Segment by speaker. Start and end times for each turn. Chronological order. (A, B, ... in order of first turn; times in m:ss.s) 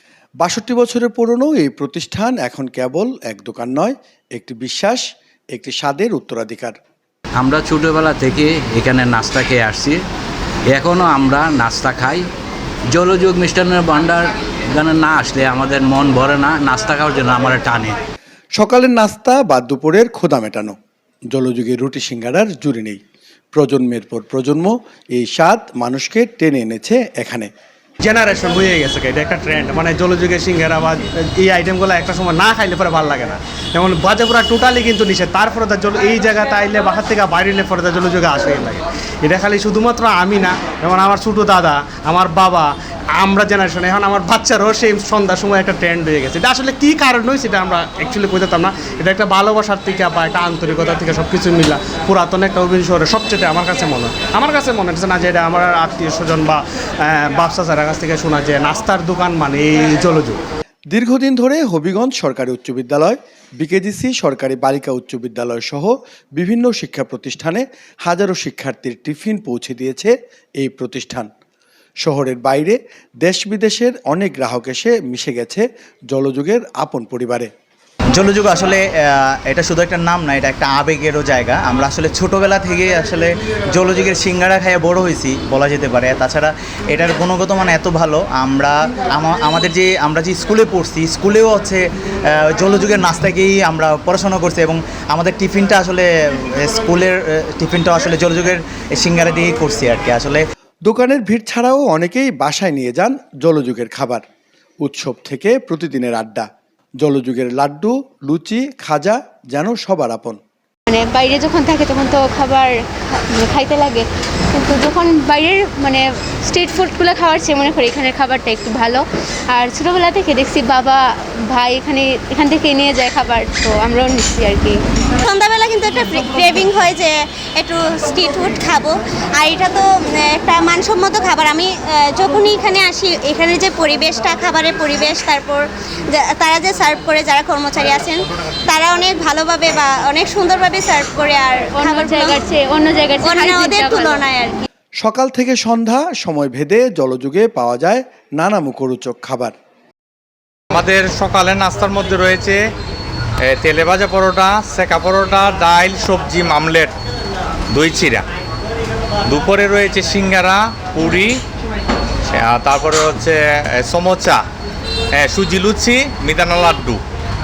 0:00.4-0:06.8 A
0:07.4-0:10.0 B
0:10.7-0:12.2 B
0:12.9-0:18.0 B
0:18.6-0:20.8 A
0:21.3-0:23.0 A
0:23.5-0:27.5 A
0:28.0-1:00.4 C
1:00.9-1:11.3 A
1:12.0-1:17.5 A
1:18.1-1:18.8 D
1:19.5-1:31.8 D
1:32.5-1:40.4 D
1:40.9-1:44.2 A
1:44.8-1:46.5 A
1:47.0-1:50.4 A
1:50.9-1:52.7 E
1:53.3-2:01.0 E
2:01.5-2:04.8 E
2:05.2-2:22.4 F
2:21.7-2:24.2 E
2:23.2-2:24.5 F
2:25.0-2:29.5 A
2:30.7-2:32.6 G
2:33.4-2:36.9 G
2:37.7-2:38.2 G
2:39.3-2:41.4 G
2:42.3-2:44.4 G
2:45.1-2:47.0 G